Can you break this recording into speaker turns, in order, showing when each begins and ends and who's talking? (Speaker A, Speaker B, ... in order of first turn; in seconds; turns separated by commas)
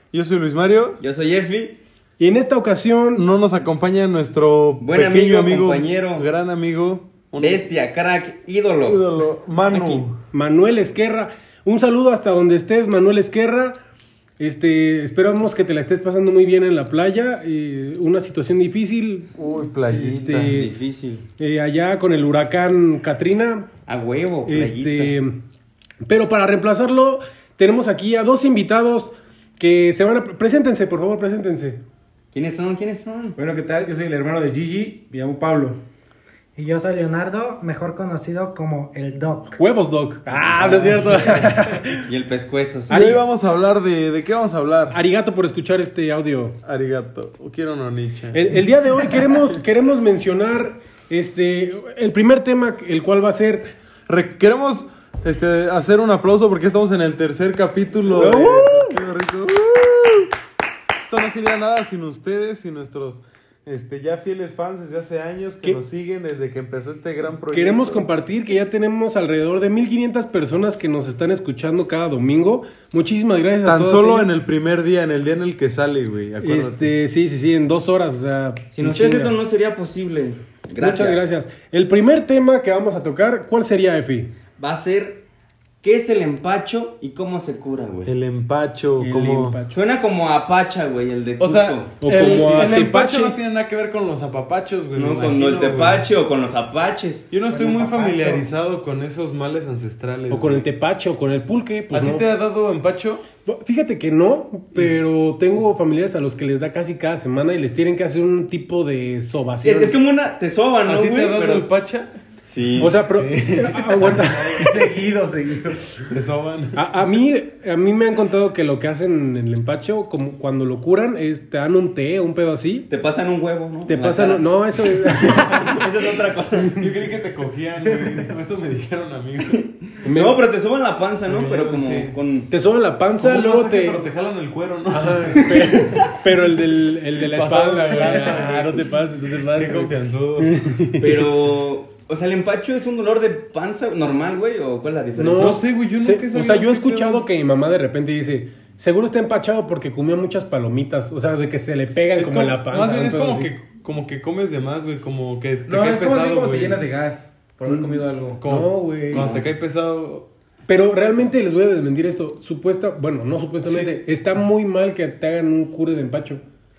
Speaker A: 0.1-1.0, Speaker B: 1.0-1.8, Speaker C: 2.2-3.3, Speaker A: 3.1-7.6, Speaker B: 4.8-6.3, Speaker B: 7.4-9.1, Speaker A: 8.8-10.2, Speaker B: 9.7-10.0, Speaker C: 10.3-13.8, Speaker C: 14.4-19.3, Speaker A: 19.4-20.6, Speaker C: 19.9-20.7, Speaker B: 20.4-21.2, Speaker C: 21.4-23.7, Speaker B: 23.9-25.1, Speaker C: 24.5-25.4, Speaker C: 26.1-31.8, Speaker B: 32.3-33.4, Speaker D: 33.4-35.8, Speaker E: 36.6-39.6, Speaker C: 39.6-42.1, Speaker A: 40.6-41.0, Speaker B: 40.6-41.4, Speaker D: 40.9-41.5, Speaker B: 42.0-43.0, Speaker C: 42.9-43.2, Speaker A: 42.9-45.0, Speaker C: 44.9-46.6, Speaker A: 46.6-49.4, Speaker C: 48.3-53.7, Speaker A: 54.1-60.3, Speaker C: 58.1-59.0, Speaker A: 61.0-68.1, Speaker C: 67.5-74.3, Speaker A: 73.6-76.9, Speaker C: 76.4-79.4, Speaker B: 78.7-81.3, Speaker C: 80.8-84.3, Speaker B: 84.6-85.2, Speaker B: 85.8-88.1, Speaker A: 88.0-89.6, Speaker C: 89.0-89.8, Speaker B: 89.7-91.9, Speaker A: 91.4-96.1, Speaker C: 92.0-93.4, Speaker B: 95.0-97.3, Speaker A: 97.3-100.7, Speaker E: 97.5-98.4, Speaker C: 100.3-102.3, Speaker A: 101.9-103.2, Speaker C: 103.5-110.0, Speaker B: 109.6-111.7, Speaker A: 110.8-112.1, Speaker B: 112.5-113.0, Speaker A: 112.8-114.8, Speaker C: 112.8-114.7, Speaker D: 114.6-115.9, Speaker A: 116.0-116.8, Speaker C: 116.8-122.9, Speaker B: 122.9-126.9, Speaker C: 123.9-125.9, Speaker A: 126.7-129.7, Speaker B: 129.5-132.5, Speaker C: 130.0-130.4, Speaker A: 131.3-132.2, Speaker C: 132.5-134.1, Speaker A: 133.2-135.9, Speaker C: 134.9-141.3, Speaker A: 137.2-138.9, Speaker D: 137.9-138.8, Speaker A: 139.5-140.6, Speaker B: 141.0-145.6, Speaker C: 145.2-153.5, Speaker A: 145.3-147.3, Speaker A: 152.2-156.8, Speaker D: 155.7-158.4, Speaker C: 157.7-159.3, Speaker A: 158.4-160.3, Speaker B: 159.1-159.5, Speaker C: 160.7-166.4, Speaker A: 163.6-164.0